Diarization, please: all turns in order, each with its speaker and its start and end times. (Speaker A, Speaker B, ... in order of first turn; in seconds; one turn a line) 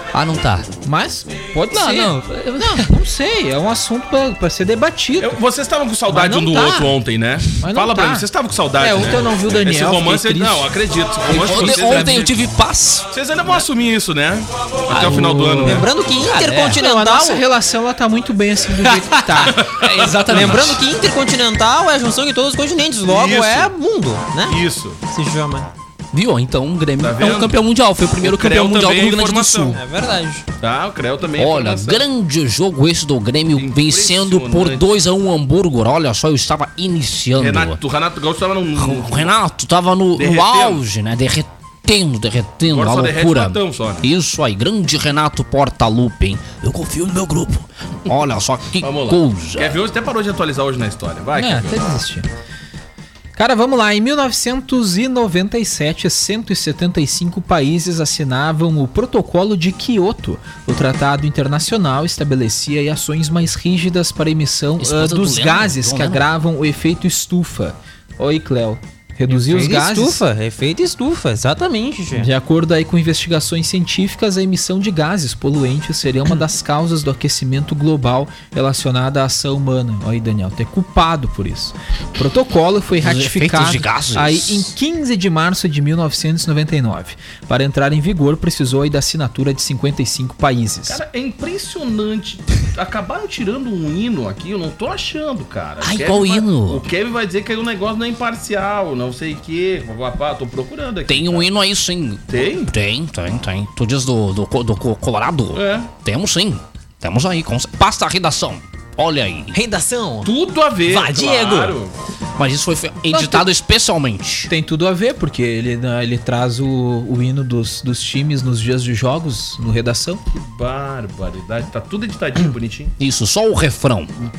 Speaker A: 0.1-0.7
Speaker B: 0.8-5.4
Speaker A: 1.7-2.8
Speaker C: 5.2-12.4
Speaker B: 6.1-6.9
Speaker B: 7.6-8.3
Speaker B: 8.8-10.7
Speaker B: 11.3-12.3
Speaker A: 11.3-13.1
Speaker C: 13.1-15.9
Speaker B: 14.9-15.9
Speaker D: 15.6-17.4
Speaker A: 16.3-16.7
Speaker B: 16.5-19.6
Speaker C: 19.4-20.6
Speaker A: 19.8-20.8
Speaker D: 20.2-24.6
Speaker C: 23.1-23.7
Speaker C: 24.4-25.0
Speaker D: 25.1-25.7
Speaker A: 26.1-29.8
Speaker C: 27.0-27.6
Speaker C: 28.2-29.8
Speaker D: 29.7-30.4
Speaker C: 30.6-32.0
Speaker A: 31.4-37.8
Speaker C: 33.5-34.8
Speaker C: 37.4-39.3
Speaker A: 38.8-49.8
Speaker C: 40.1-40.8
Speaker C: 42.7-44.0
Speaker C: 48.8-51.8
Speaker B: 51.3-52.3
Speaker B: 53.4-70.2
Speaker A: 64.8-66.2
Speaker D: 69.3-72.3
Speaker B: 72.1-91.0
Speaker A: 83.0-84.7
Speaker C: 90.9-101.5
Speaker A: 95.8-96.8
Speaker A: 101.1-109.5
Speaker C: 102.3-102.7
Speaker C: 105.5-105.9
Speaker D: 109.5-110.3
Speaker C: 110.2-111.9
Speaker D: 110.8-111.8
Speaker A: 112.4-114.5
Speaker B: 113.1-113.5
Speaker B: 114.5-120.2
Speaker C: 120.3-122.9
Speaker A: 123.0-124.1